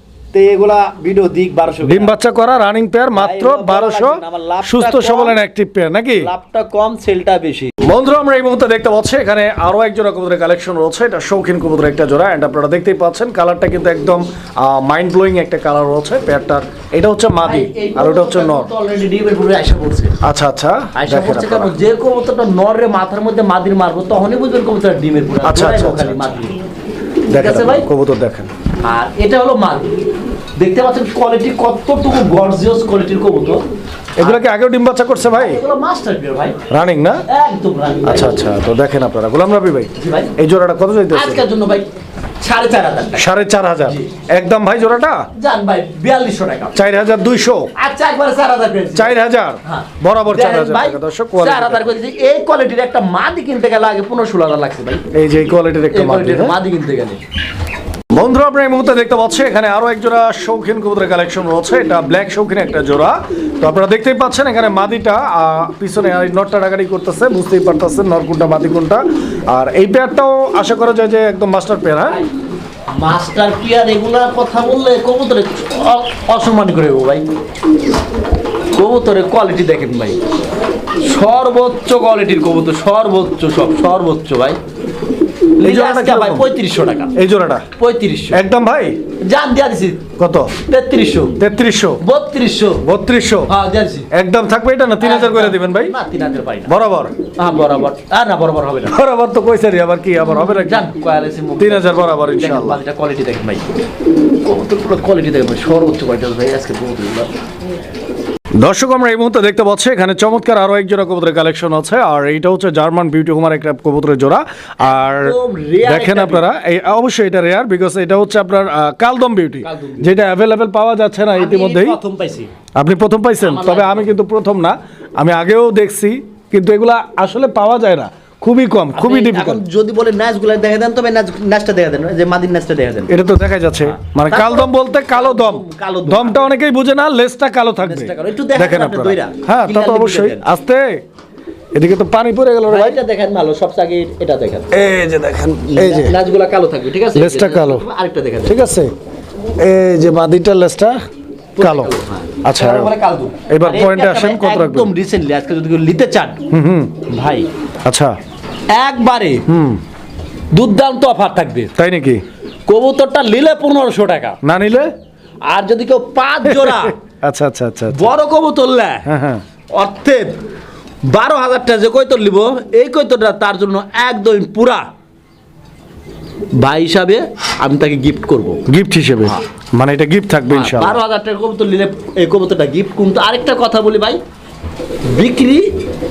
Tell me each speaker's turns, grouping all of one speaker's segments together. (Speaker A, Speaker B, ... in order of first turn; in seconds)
Speaker A: 0.3-2.1, 3.1-5.4, 6.2-7.7, 17.4-20.1, 20.9-26.6, 27.3-27.9, 28.8-29.9, 30.6-33.6, 35.3-36.6, 37.3-38.5, 40.0-40.4, 41.1-41.9, 42.4-43.2, 45.4-46.8, 47.8-55.0, 55.9-57.2, 73.0-77.2, 78.7-80.2, 81.0-84.6, 85.6-87.1, 87.8-88.4, 89.2-90.0, 90.7-91.4, 92.0-92.8, 93.5-94.1, 95.0-96.7, 97.4-99.0, 100.5-103.7, 104.4-107.3, 115.2-116.5, 119.6-120.1, 121.3-122.5, 123.4-124.1, 128.9-133.1, 133.8-136.5, 137.8-140.5, 142.7-144.7, 145.7-148.6, 151.6-156.4, 157.1-157.5, 158.7-159.4, 160.5-161.7, 162.7-164.4, 165.5-167.0, 167.9-169.1, 169.7-170.3, 171.1-174.8, 176.6-178.6, 180.5-184.2, 185.1-185.7
Speaker B: 1.8-6.3, 7.8-18.7, 20.2-21.7, 25.4-26.4, 27.3-28.5, 34.2-35.6, 36.7-37.2, 38.0-41.4, 43.1-45.2, 46.7-47.7, 48.9-51.9, 55.1-56.5, 58.1-72.2, 85.6-86.5, 87.2-87.7, 88.3-89.0, 90.2-90.5, 91.4-92.0, 92.8-93.5, 94.1-95.9, 96.7-97.1, 98.9-100.9, 101.6-102.8, 108.6-122.0, 122.7-129.6, 133.1-141.0, 141.8-143.0, 144.7-146.1, 147.1-147.8, 148.4-148.9, 149.6-151.0, 151.6-151.9, 152.4-152.9, 153.5-154.9, 156.5-157.0, 157.8-158.1, 159.5-159.8, 161.8-162.2, 164.4-164.9, 166.5-168.1, 169.0-169.4, 178.7-181.0